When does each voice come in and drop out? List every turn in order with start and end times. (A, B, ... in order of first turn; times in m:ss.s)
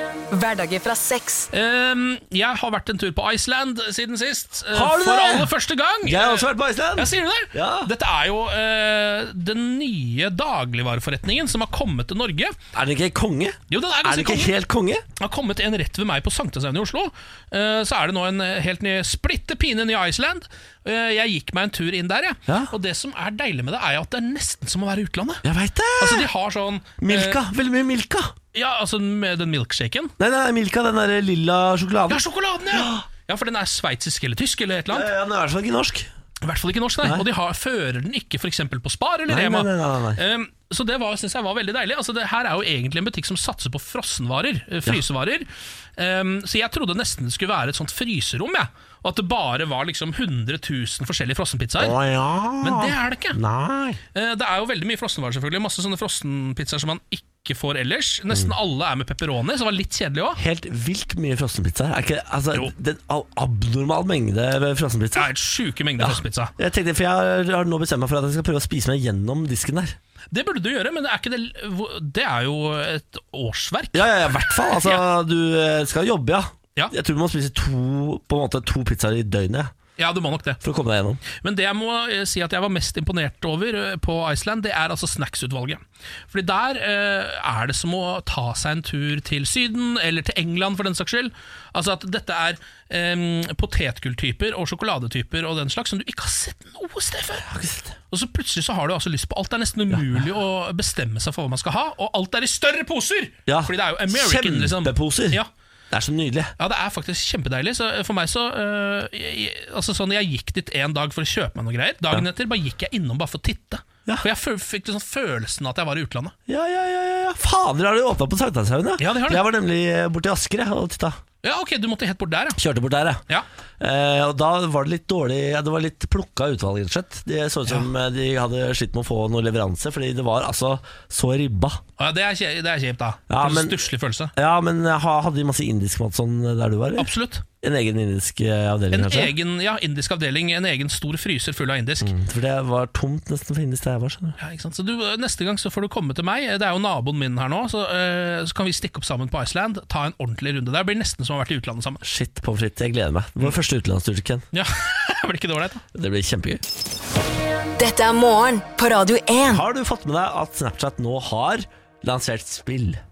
0:00.3-0:01.5 A
0:01.5-0:12.5 B
0:04.7-0:07.9 C
0:12.7-0:15.0 C
0:13.7-0:14.5 B
0:15.2-0:25.4 B
0:22.5-0:22.7 C
0:25.4-0:26.3 C
0:26.0-0:27.4 B
0:27.0-0:28.3 C
0:28.5-0:30.1 B
0:30.2-0:33.0 C
0:32.1-0:35.1 B
0:34.9-0:36.1 C
0:36.4-0:52.0 B
0:39.3-0:40.2 C
0:51.8-0:54.0 C
0:52.6-0:53.4 B
0:54.1-1:00.4 B
1:00.4-1:05.3 C
1:05.1-1:06.5 B
1:06.0-1:10.0 C
1:10.3-1:14.1 B
1:13.9-1:19.7 C
1:14.6-1:15.0 B
1:20.0-1:20.6 B
1:20.6-1:21.2 C
1:21.3-1:37.4 B
1:37.4-1:38.0 C
1:38.1-1:45.5 B
1:43.5-1:46.5 C
1:46.6-1:56.3 B
1:56.5-2:01.2 C
1:59.0-1:59.4 B
2:01.4-2:02.6 B
2:02.6-2:03.2 C
2:03.8-2:11.8 C
2:12.0-2:14.3 B
2:13.3-2:13.8 C
2:14.4-2:17.1 C
2:17.0-2:17.4 B
2:17.6-2:19.3 C
2:18.9-2:22.1 B
2:22.0-2:24.4 C
2:24.4-2:32.0 B
2:32.0-2:34.4 C
2:34.5-2:35.8 B
2:35.9-2:36.6 C
2:37.8-2:39.6 A
2:39.4-2:43.0 C